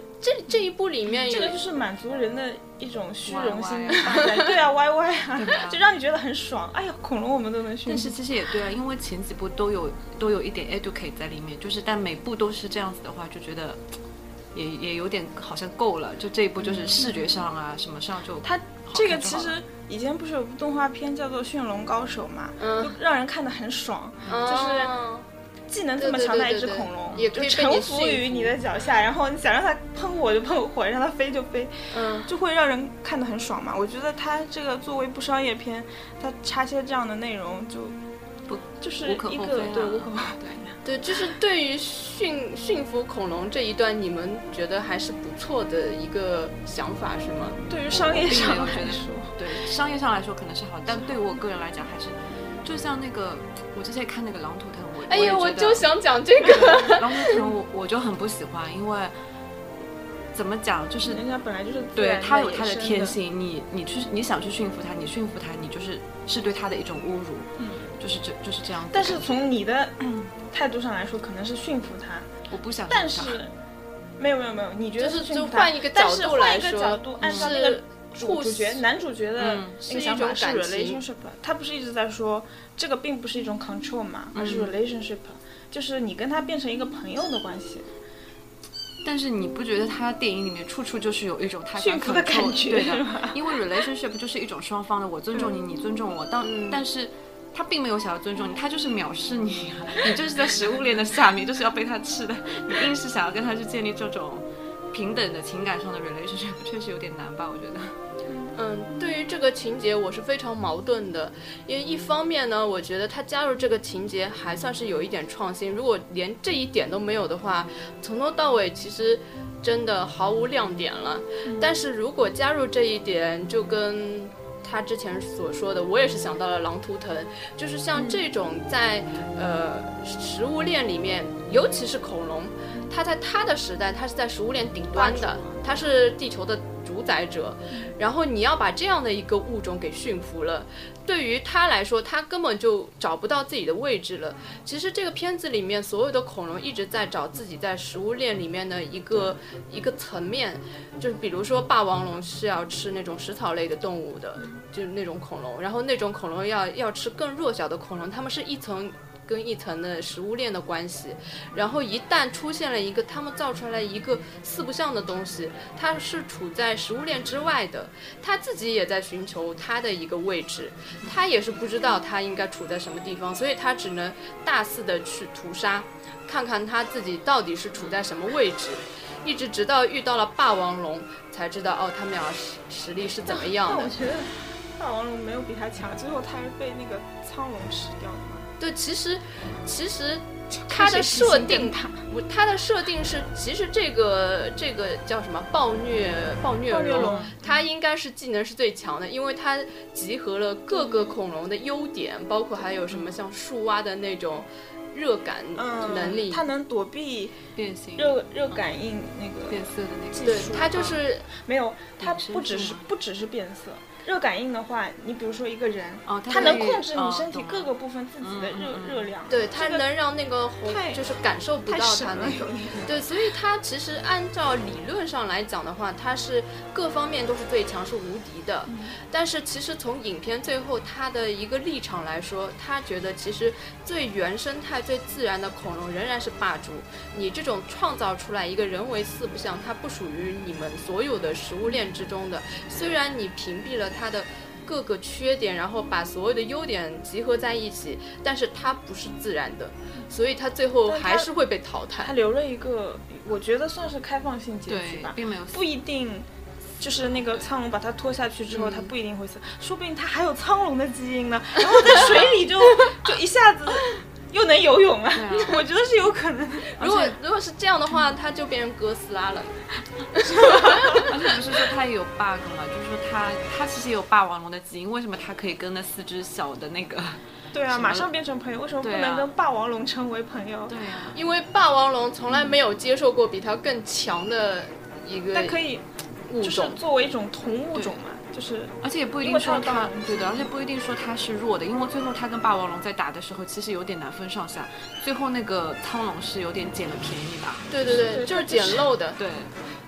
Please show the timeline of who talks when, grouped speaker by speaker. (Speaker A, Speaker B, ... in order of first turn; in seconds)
Speaker A: 0.2-1.6, 22.6-23.0, 24.3-25.3, 26.0-28.5, 31.9-32.3, 40.8-47.6, 55.1-57.4, 75.0-78.8, 79.8-81.0, 96.4-96.8, 108.5-183.9, 188.6-206.5, 210.2-211.3, 219.3-252.1, 258.5-258.9, 261.8-262.3, 266.7-271.1, 281.1-285.6, 286.3-286.8, 297.7-299.2
Speaker B: 1.1-8.2, 16.6-17.4, 18.4-24.9, 25.7-31.7, 32.2-38.0, 38.8-40.7, 47.6-49.4, 61.0-63.2, 67.6-68.0, 68.9-72.3, 72.9-73.5, 74.2-87.9, 91.8-93.6, 127.9-128.2, 134.9-135.8, 183.2-188.5, 190.6-192.0, 196.7-197.6, 200.7-201.2, 205.6-209.7, 210.2-219.8, 220.7-221.1, 221.7-223.0, 228.7-228.9, 250.8-251.3, 252.0-256.3, 256.8-267.1, 270.3-271.1, 277.5-280.8, 285.3-285.9, 286.4-290.5, 297.8-298.9
Speaker C: 3.2-4.5, 5.3-5.8, 7.8-13.8, 14.5-19.6, 38.5-40.7, 47.9-55.8, 56.5-59.1, 60.3-61.2, 61.9-69.5, 72.5-73.4, 77.2-77.5, 79.4-79.8, 84.3-84.7, 89.0-108.0, 197.0-197.3, 202.9-203.2, 205.8-206.2, 207.5-208.6, 209.5-211.0, 212.0-212.9, 216.1-219.1, 254.7-255.7, 261.8-262.5, 265.1-265.6, 271.0-278.1, 278.8-279.3, 280.7-281.2, 288.8-297.8, 299.2-299.5